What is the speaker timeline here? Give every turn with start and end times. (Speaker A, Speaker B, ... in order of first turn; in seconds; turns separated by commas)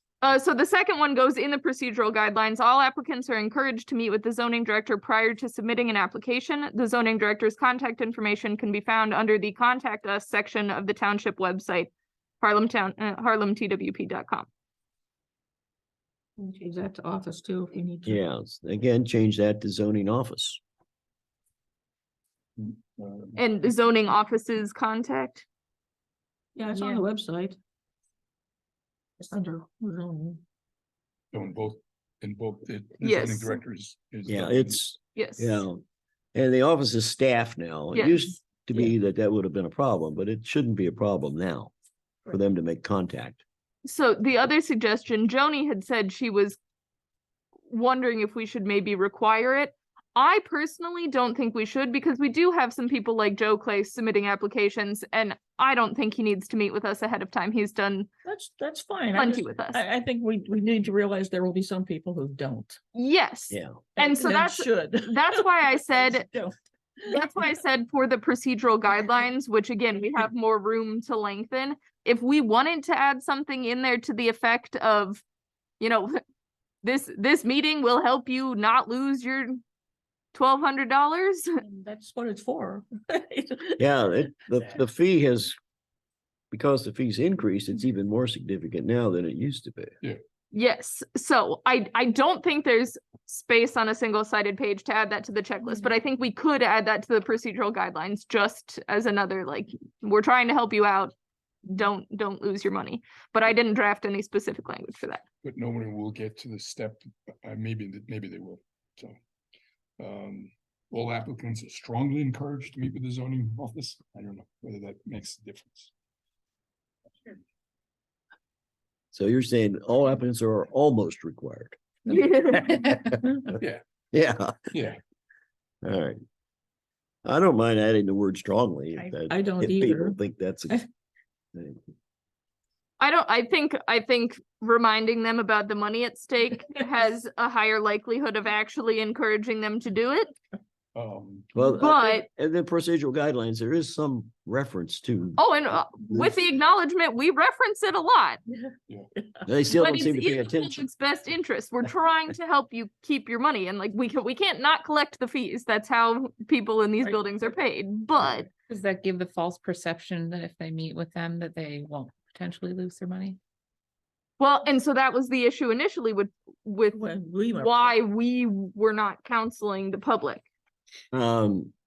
Speaker A: 0.2-14.5, Speaker B: 16.4-18.2, Speaker C: 18.1-20.6, Speaker D: 22.6-23.4, Speaker A: 23.4-25.5, Speaker B: 26.6-27.6, Speaker E: 26.8-27.0, Speaker B: 29.2-30.4, Speaker D: 31.3-34.8, Speaker A: 33.0-33.5, Speaker C: 34.3-35.8, Speaker A: 35.2-35.6, Speaker C: 36.3-41.7, Speaker A: 37.9-38.3, Speaker C: 42.3-43.4, Speaker A: 43.9-46.6, Speaker A: 47.7-58.1, Speaker B: 58.2-62.8, Speaker A: 59.1-59.8, Speaker A: 63.0-66.2, Speaker C: 63.5-63.8, Speaker B: 64.0-67.5, Speaker A: 67.1-75.2, Speaker A: 75.8-76.2, Speaker A: 76.8-79.6, Speaker A: 80.3-81.6, Speaker B: 81.6-83.8, Speaker C: 83.8-85.5, Speaker C: 86.5-90.0, Speaker A: 90.5-101.1, Speaker A: 101.7-105.2, Speaker D: 105.4-109.2, Speaker D: 110.0-115.9, Speaker C: 119.1-121.8, Speaker A: 122.1-122.8, Speaker E: 122.5-123.2, Speaker D: 123.6-123.8, Speaker C: 124.1-124.7, Speaker D: 124.7-125.0, Speaker C: 125.8-126.2, Speaker C: 127.2-130.9, Speaker B: 128.9-130.2, Speaker C: 131.5-131.8, Speaker A: 133.0-140.3, Speaker D: 140.9-141.5, Speaker C: 141.5-145.4, Speaker A: 141.8-142.3, Speaker A: 145.4-148.4, Speaker B: 149.2-149.4, Speaker C: 149.5-150.9, Speaker A: 149.7-158.5, Speaker E: 158.7-163.4, Speaker A: 164.4-167.0, Speaker B: 166.9-167.9, Speaker A: 167.6-170.5, Speaker C: 171.1-171.7